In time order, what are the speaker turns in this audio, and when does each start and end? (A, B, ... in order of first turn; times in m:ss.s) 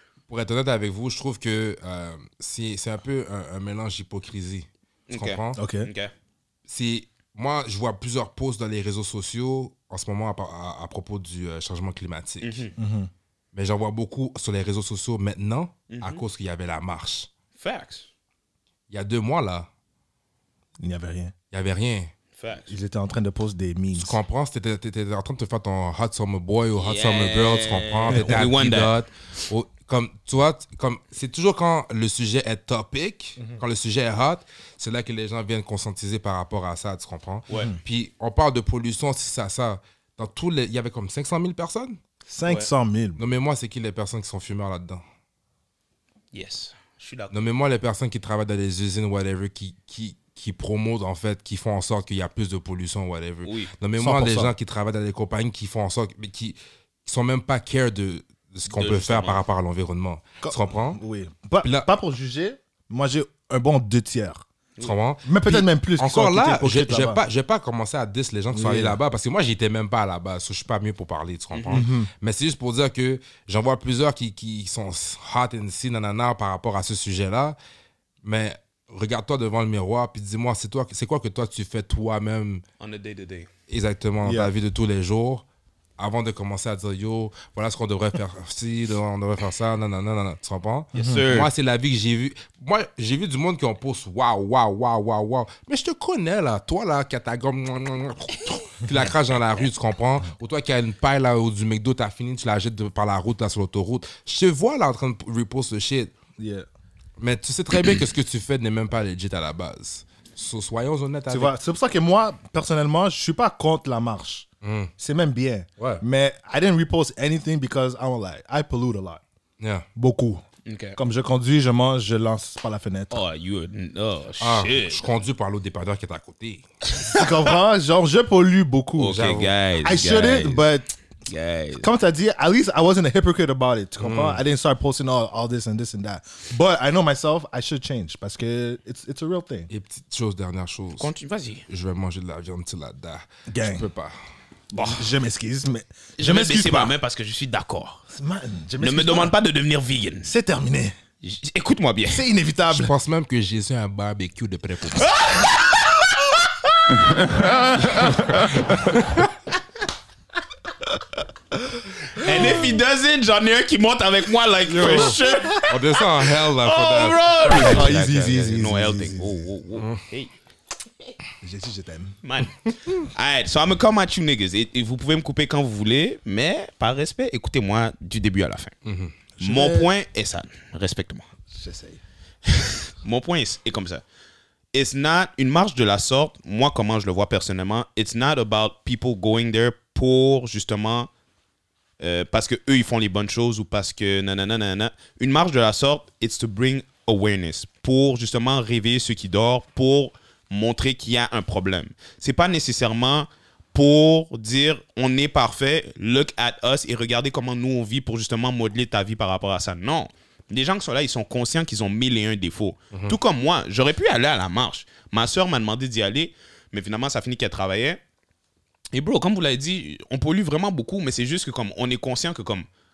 0:00.3-0:05.6 A
0:05.1-0:06.1 B
0:05.5-0:05.9 C
0:06.7-0:12.6 A
0:12.4-0:12.7 B
0:12.8-0:13.1 C
0:13.5-0:17.3 A
0:15.9-0:16.2 B
0:17.6-0:18.1 B
0:18.9-0:19.7 A
0:20.8-0:21.3 C
0:21.5-0:22.1 A
0:22.4-0:22.7 B
0:22.7-0:24.2 C
0:23.9-0:42.0 A
0:26.8-0:28.9 B
0:28.1-0:28.5 C
0:42.3-0:43.2 C
0:43.2-0:45.0 A
0:46.3-0:47.4 B
0:47.3-1:01.0 A
0:53.4-0:53.7 B
0:54.0-0:54.5 C
0:58.7-0:59.4 B
1:00.4-1:04.4 C
1:01.6-1:01.9 A
1:04.8-1:17.6 A
1:05.2-1:07.2 C
1:08.5-1:09.0 C
1:11.5-1:11.8 B
1:11.7-1:12.1 C
1:18.2-1:22.6 A
1:22.8-1:23.5 B
1:23.7-1:25.4 A
1:24.2-1:24.5 C
1:26.0-1:46.1 A
1:30.9-1:31.5 B
1:31.0-1:31.2 C
1:46.4-1:46.6 C
1:47.2-1:51.5 A
1:51.3-1:54.5 C
1:54.6-1:54.9 A
1:55.0-1:59.2 C
1:55.8-1:56.0 A
1:59.6-1:59.9 A
2:00.0-2:00.4 C
2:00.6-2:01.0 B
2:01.0-2:03.2 C
2:03.1-2:05.1 B
2:04.4-2:06.7 A
2:06.9-2:07.3 B
2:07.1-2:09.2 C
2:09.0-2:10.6 B
2:09.1-2:09.5 A
2:09.8-2:10.9 C
2:11.3-2:11.9 B
2:11.8-2:19.7 C
2:14.0-2:14.4 A
2:19.7-2:21.1 A
2:21.0-2:21.6 B
2:21.7-2:24.2 A
2:23.5-2:23.9 C
2:24.7-2:26.9 C
2:24.7-2:25.1 B
2:26.2-2:28.0 B
2:28.1-2:29.3 C
2:28.8-2:30.3 B
2:30.2-2:30.9 C
2:31.2-2:32.3 B
2:32.1-2:32.9 C
2:32.7-2:35.1 A
2:34.9-2:36.0 B
2:37.1-2:39.3 A
2:37.3-2:37.6 C
2:42.1-2:45.7 B
2:44.7-2:48.1 A
2:44.9-2:45.6 C
2:46.6-2:50.3 B
2:47.4-2:49.5 C
2:49.8-2:50.0 A
2:51.4-2:52.2 C
2:52.2-2:58.7 B
2:58.8-2:59.2 A
2:59.4-2:59.9 C
2:59.4-3:01.3 B
3:01.5-3:02.0 C
3:02.6-3:04.0 B
3:04.7-3:11.1 B
3:12.0-3:38.0 B
3:32.9-3:33.2 A
3:38.9-3:42.7 B